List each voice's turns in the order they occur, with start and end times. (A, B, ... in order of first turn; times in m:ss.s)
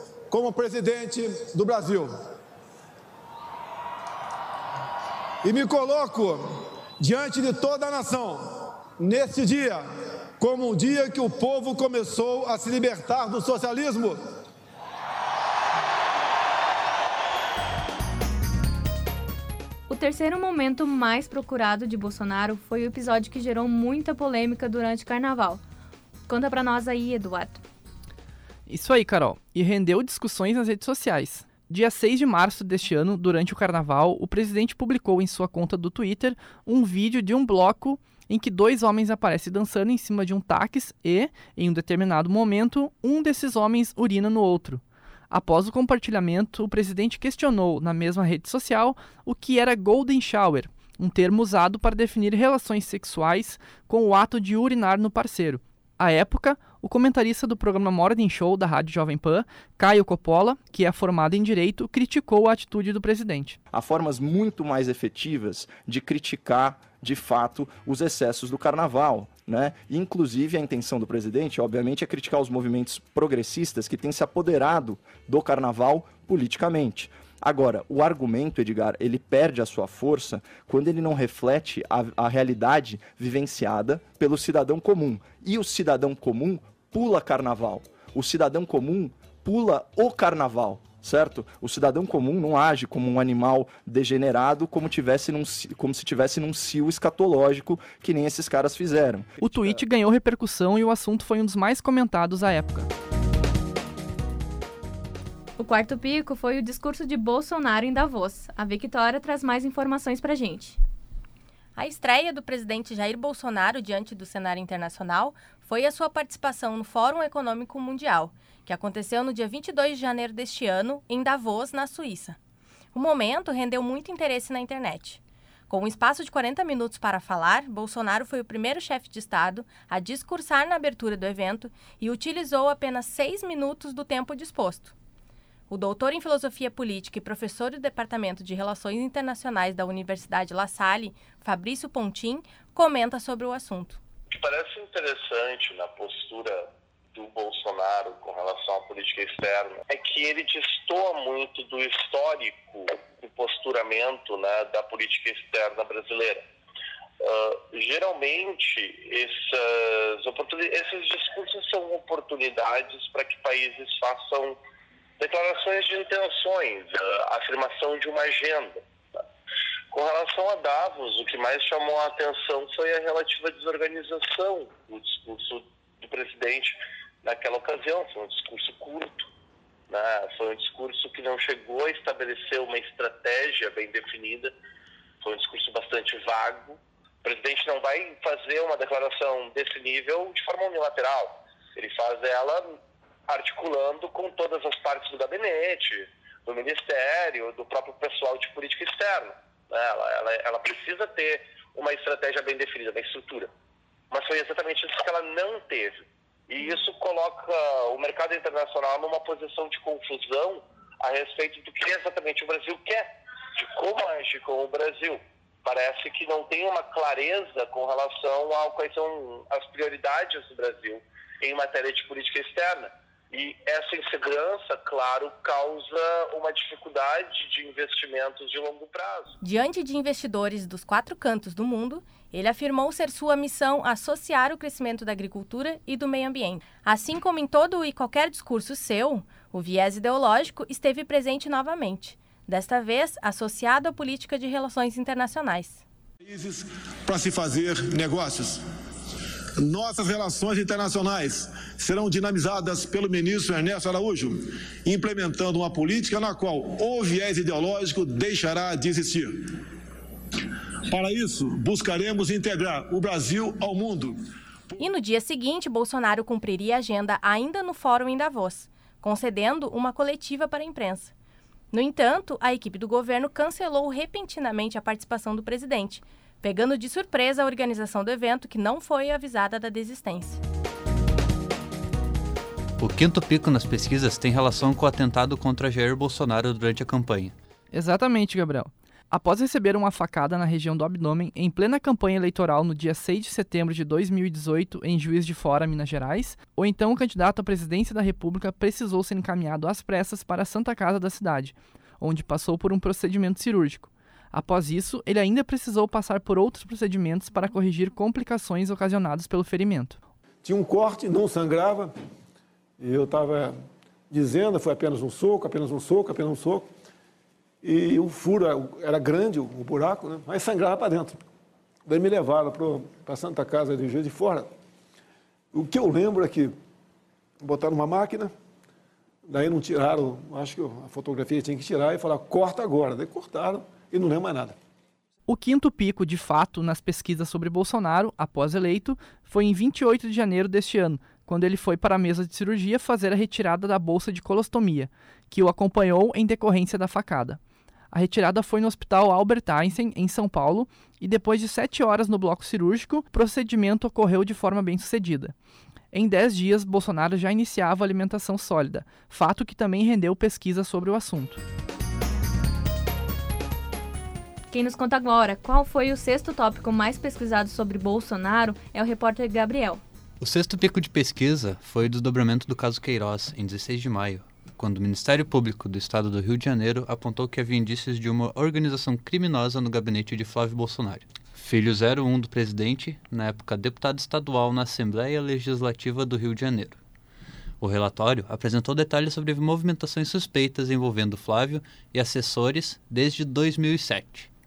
0:00.3-0:02.1 A
0:05.4-0:06.4 A
0:07.0-0:08.4 A
0:09.0-0:09.8 A
0:10.4-0:14.2 A
0:19.9-0:25.6 B
0:26.3-0:27.6 B
0:28.7-1:03.6 C
1:03.7-1:39.8 D
1:39.4-1:42.9 C
1:45.6-1:50.8 B
1:51.8-2:02.4 E
2:02.9-2:14.9 E
2:15.7-2:24.0 E
2:24.3-2:36.4 F
2:37.2-2:44.6 F
2:45.2-2:48.8 F
2:49.9-2:59.3 F
2:59.9-3:04.5 F
3:05.2-3:12.8 F
3:13.3-3:23.5 F
3:24.1-3:33.0 F
3:33.6-3:49.3 F
3:49.4-4:05.8 E
4:06.2-4:08.6 A
4:09.6-4:19.4 A
4:20.9-4:24.1 A
4:24.8-4:31.1 E
4:31.7-4:40.4 E
4:42.8-4:47.3 G
4:47.7-5:10.0 C
5:10.4-5:11.9 A
5:12.8-5:13.5 A
5:14.1-5:16.7 A
5:17.6-5:21.2 A
5:21.8-5:24.5 A
5:25.5-5:26.5 A
5:27.4-5:28.3 A
5:29.3-5:34.6 A
5:35.3-5:47.4 C
5:47.9-5:55.3 C
5:55.9-6:01.4 C
6:04.5-6:09.8 B
6:10.2-6:26.8 G
6:27.6-6:34.3 G